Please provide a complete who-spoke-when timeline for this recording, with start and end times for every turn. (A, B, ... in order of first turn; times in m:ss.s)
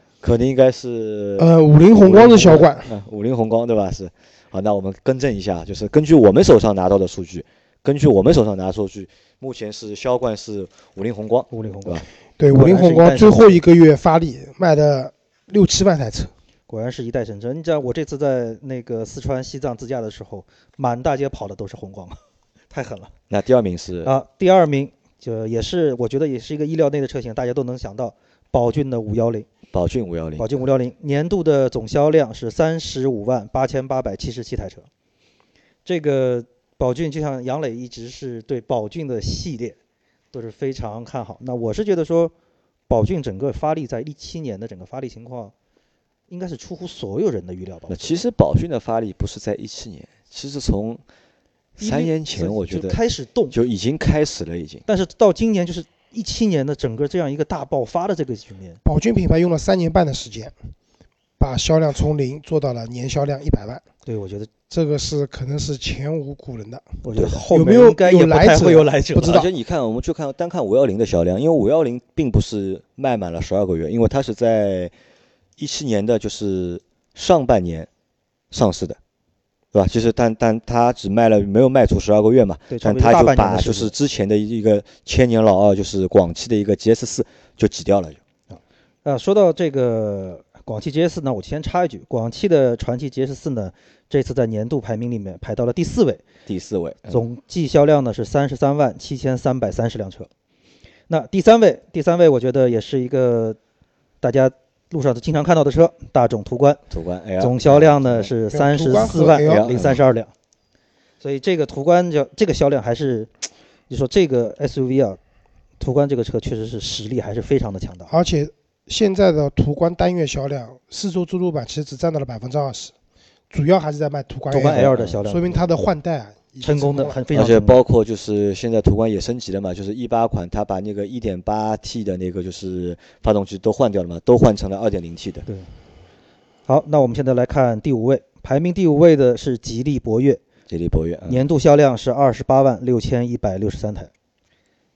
0:00.2-0:12.1 A
0:01.4-0:02.9 B
0:11.5-0:13.6 C
0:12.4-0:16.3 B
0:16.7-0:22.2 C
0:22.7-0:23.1 C
0:23.3-0:24.1 A
0:24.0-0:29.5 C
0:29.7-0:30.5 A
0:30.4-0:34.9 C
0:35.8-0:39.8 C
0:40.3-0:42.3 C
0:42.9-0:45.5 C
0:46.3-0:48.2 C
0:47.9-0:51.0 A
0:51.8-0:53.0 A
0:51.8-0:53.6 C
0:53.5-0:54.8 A
0:54.9-0:58.8 C
0:58.8-1:00.5 B
1:01.4-1:03.8 B
1:04.1-1:04.5 C
1:04.7-1:07.0 B
1:07.0-1:09.4 C
1:07.2-1:07.4 A
1:07.5-1:09.5 B
1:09.2-1:14.9 A
1:15.6-1:17.9 A
1:18.5-1:19.0 A
1:19.7-1:28.2 A
1:22.7-1:23.9 C
1:28.5-1:36.2 C
1:36.5-1:37.2 A
1:37.1-1:40.3 C
1:41.1-1:43.6 C
1:44.2-1:46.8 C
1:46.9-1:48.3 A
1:47.4-1:50.3 C
1:48.5-1:49.7 B
1:49.4-1:50.0 A
1:51.2-1:53.3 C
1:53.9-1:55.2 C
1:55.8-1:58.1 C
1:58.1-2:02.9 B
2:03.5-2:07.2 B
2:04.5-2:05.9 C
2:04.7-2:05.2 A
2:06.6-2:07.8 C
2:07.3-2:15.5 A
2:15.5-2:15.7 C
2:16.7-2:20.4 C
2:20.7-2:21.5 A
2:21.3-2:24.1 C